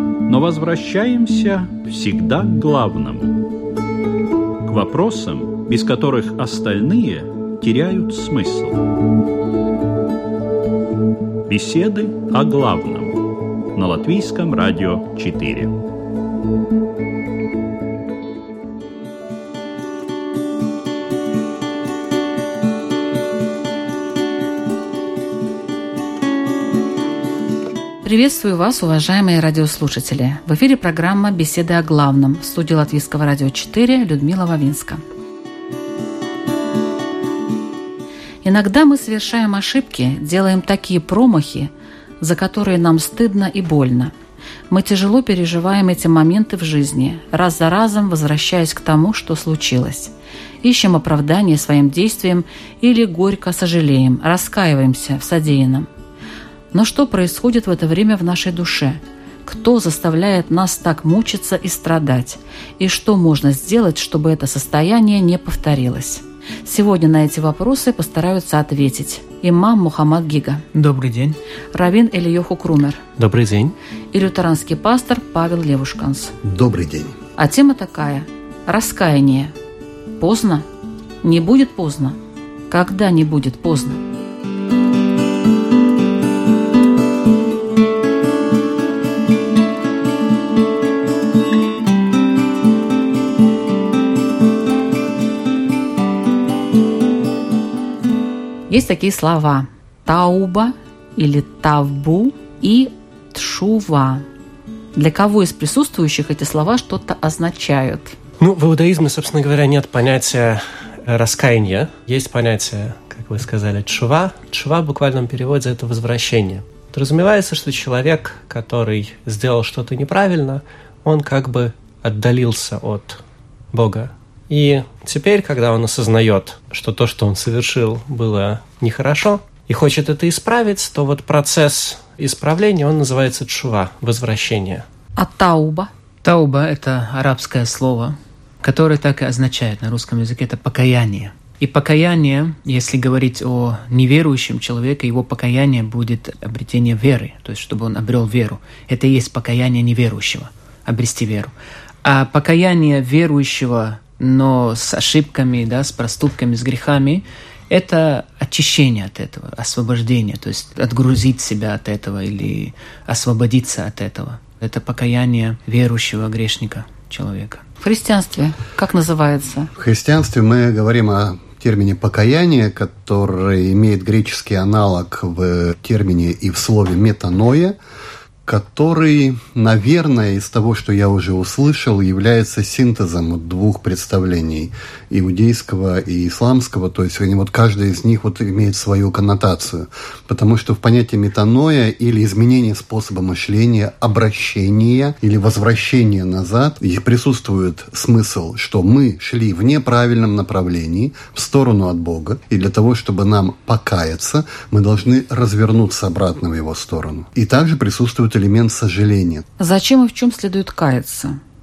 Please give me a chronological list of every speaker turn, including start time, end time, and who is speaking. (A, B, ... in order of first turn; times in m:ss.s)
0:00.3-0:03.4 A
0:04.6-0:08.8 A
0:11.5-0:13.2 A
0:13.7-0:15.7 A
0:28.0-0:35.0 B
0:38.4-0:44.1 B
0:44.7-0:55.9 B
0:56.7-1:10.6 B
1:10.7-1:11.4 C
1:11.7-1:13.0 B
1:13.2-1:13.8 D
1:14.1-1:16.3 B
1:16.4-1:17.2 E
1:17.4-1:19.5 B
1:20.2-1:20.7 B
1:21.2-1:22.2 B
1:22.7-1:24.0 B
1:38.7-1:44.2 B
1:45.0-1:48.2 B
1:48.4-2:03.2 D
2:03.7-2:14.8 D
2:15.2-2:15.9 B
2:16.2-2:31.5 C
2:32.0-2:47.6 C
2:47.8-2:49.7 B
2:49.8-2:57.8 E
2:58.5-3:29.4 E
3:29.6-3:31.4 B